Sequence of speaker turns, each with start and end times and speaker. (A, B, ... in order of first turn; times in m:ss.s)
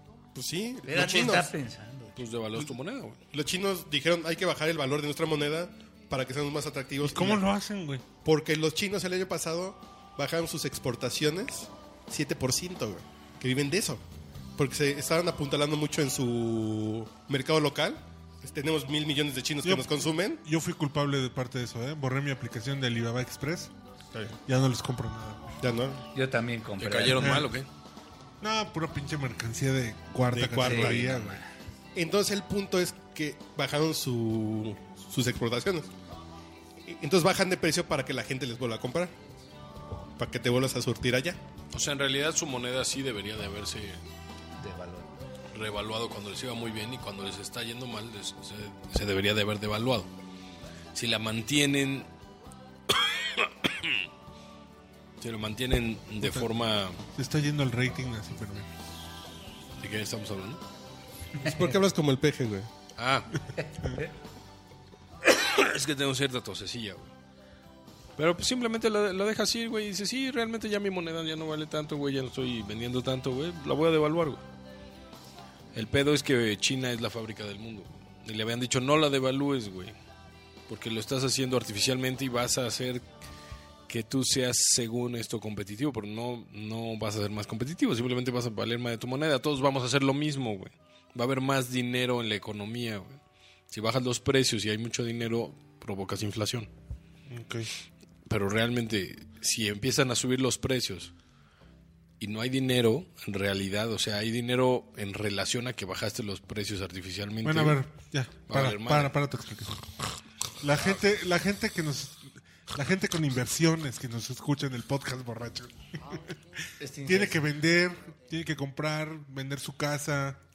0:00.4-0:01.5 A
0:00.9-0:02.1 B
0:02.2-0:03.2 C
0:03.3-0:07.4 A
0:07.0-0:08.0 D
0:08.2-0:14.0 A
0:14.6-0:20.4 A
0:19.6-0:23.7 D
0:24.5-0:25.5 D
0:25.6-0:26.0 A
0:26.1-0:27.4 B
0:26.8-0:27.7 C
0:27.2-0:27.5 D
0:28.4-0:31.4 D
0:30.3-0:31.4 A
0:30.6-0:31.4 B
0:32.0-0:35.9 A
0:36.8-0:39.1 A
0:40.2-0:41.4 A
0:41.7-0:44.0 C
0:44.6-0:45.2 B
0:45.5-0:50.1 C
0:51.0-0:52.1 C
0:52.9-0:54.0 C
0:55.2-0:57.0 C
0:56.2-0:56.5 D
0:57.2-0:58.7 D
0:59.8-1:00.6 C
1:01.4-1:02.7 A
1:03.0-1:03.3 C
1:05.2-1:07.1 C
1:08.2-1:14.4 C
1:15.7-1:20.0 C
1:20.7-1:23.1 C
1:23.9-1:33.2 C
1:33.7-1:36.7 C
1:37.3-1:37.7 D
1:38.3-1:41.1 C
1:42.2-1:47.8 C
1:47.4-1:49.9 D
1:48.5-1:49.1 C
1:50.6-2:00.4 D
1:56.8-1:57.4 B